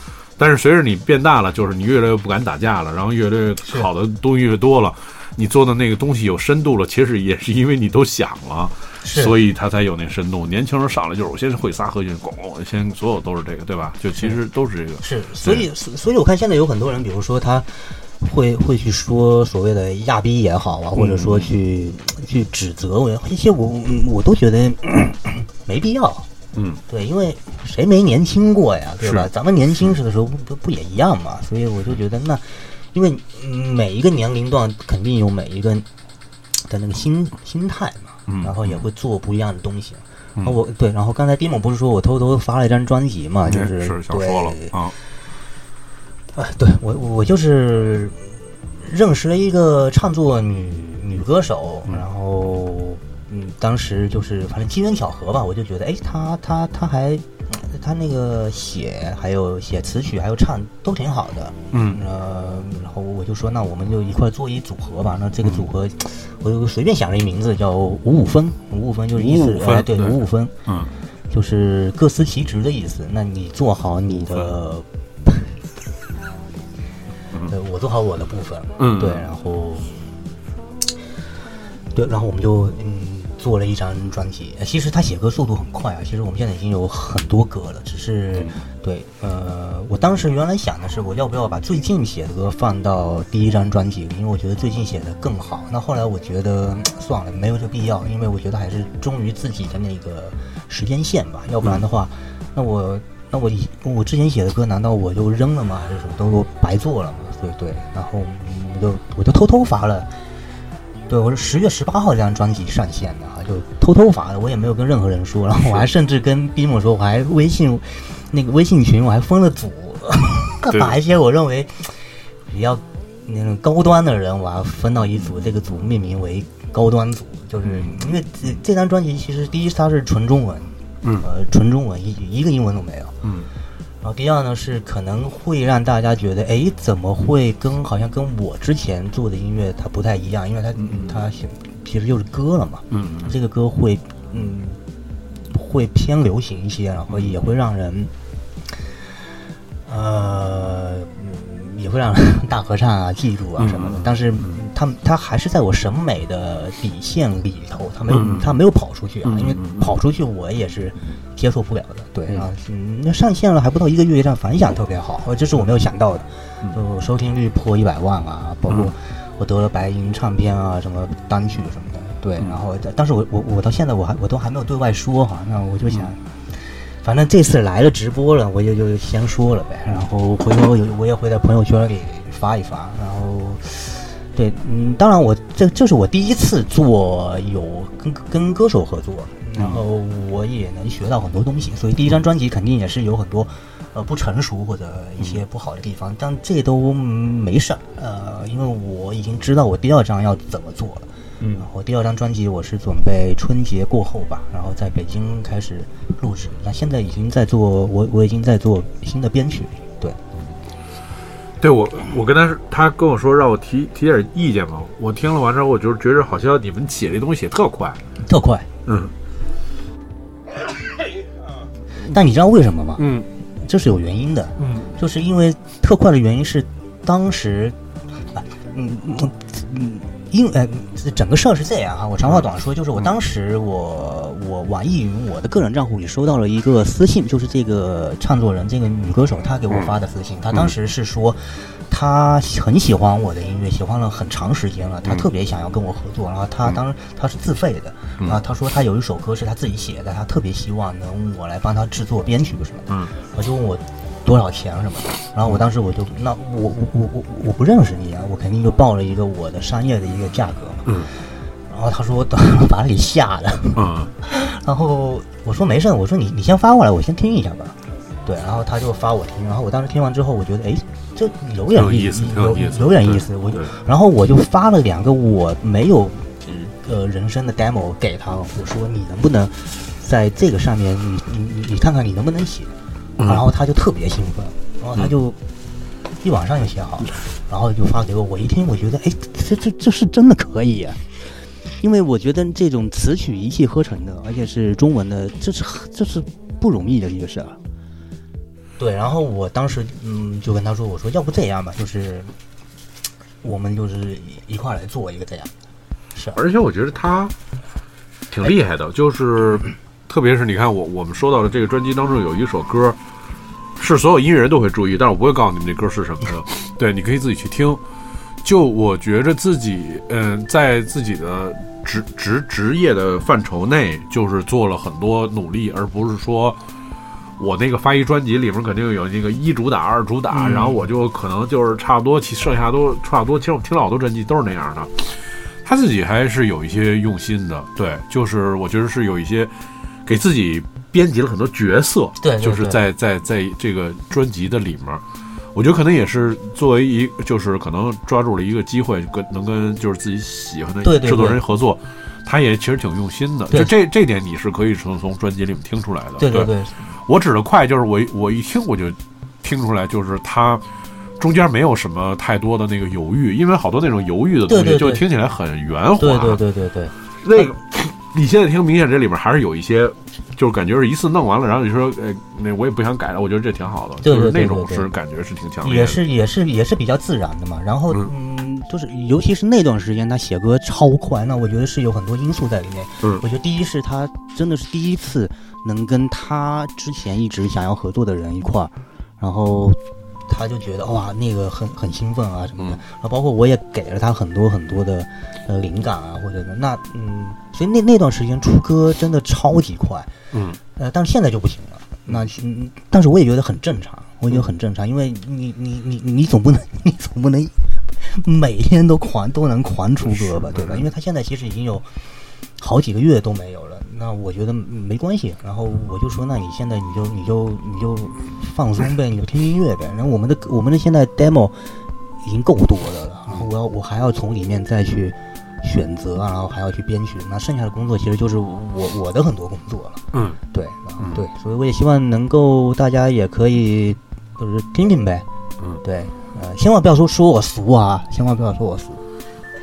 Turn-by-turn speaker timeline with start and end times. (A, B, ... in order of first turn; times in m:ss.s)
0:00.4-0:15.6 A
0:09.0-0:09.4 B
0:15.0-0:26.3 B
0:21.0-0:21.5 A
0:26.5-0:26.8 A
0:26.9-0:35.8 B
0:29.0-0:29.3 A
0:36.6-0:44.8 B
0:38.3-0:38.8 A
0:43.4-0:44.9 A
0:46.3-1:10.5 B
1:01.7-1:02.0 A
1:09.2-1:10.9 A
1:11.3-1:15.6 B
1:17.5-1:20.1 B
1:18.8-1:19.3 A
1:21.9-1:50.1 B
1:51.1-2:13.1 B
1:55.6-1:55.8 A
2:00.7-2:01.0 A
2:05.2-2:05.5 A
2:07.6-2:08.1 A
2:13.2-2:13.5 A
2:14.0-2:24.8 B
2:20.8-2:21.2 A
2:22.9-2:23.3 A
2:25.4-2:28.1 B
2:29.8-3:21.1 B
2:33.6-2:34.6 A
2:38.1-2:38.5 A
2:39.2-2:39.9 A
3:09.6-3:09.8 A
3:21.4-3:21.7 A
3:21.6-3:30.2 B
3:31.6-3:38.0 A
3:38.2-3:38.7 B
3:38.8-3:39.1 A
3:42.0-3:47.8 B
3:43.0-3:43.3 A
3:44.6-3:44.9 A
3:48.3-4:42.7 B
4:12.9-4:13.1 A
4:20.8-4:21.1 A
4:23.8-4:24.1 A
4:31.7-4:33.7 A
4:43.2-4:45.4 B
4:46.2-4:51.1 B
4:51.7-4:57.6 B
4:58.8-5:02.3 B
5:03.4-5:05.5 B
5:06.3-5:07.3 A
5:08.3-5:13.0 A
5:13.8-5:17.8 A
5:18.4-5:26.6 A
5:27.4-6:00.6 A
5:30.3-5:30.8 B
5:42.2-5:42.8 B
5:50.8-5:51.4 B
5:56.2-5:56.9 B
6:01.2-6:06.4 A
6:04.5-6:05.0 B
6:06.0-6:07.6 B
6:07.2-6:16.0 A
6:14.0-6:14.9 B
6:15.6-6:40.1 B
6:40.3-6:40.6 A
6:40.8-6:51.9 B
6:50.0-6:50.8 A
6:52.6-7:01.7 B
7:02.2-7:15.2 B
7:10.1-7:10.4 A
7:11.0-7:11.2 A
7:15.8-7:19.0 B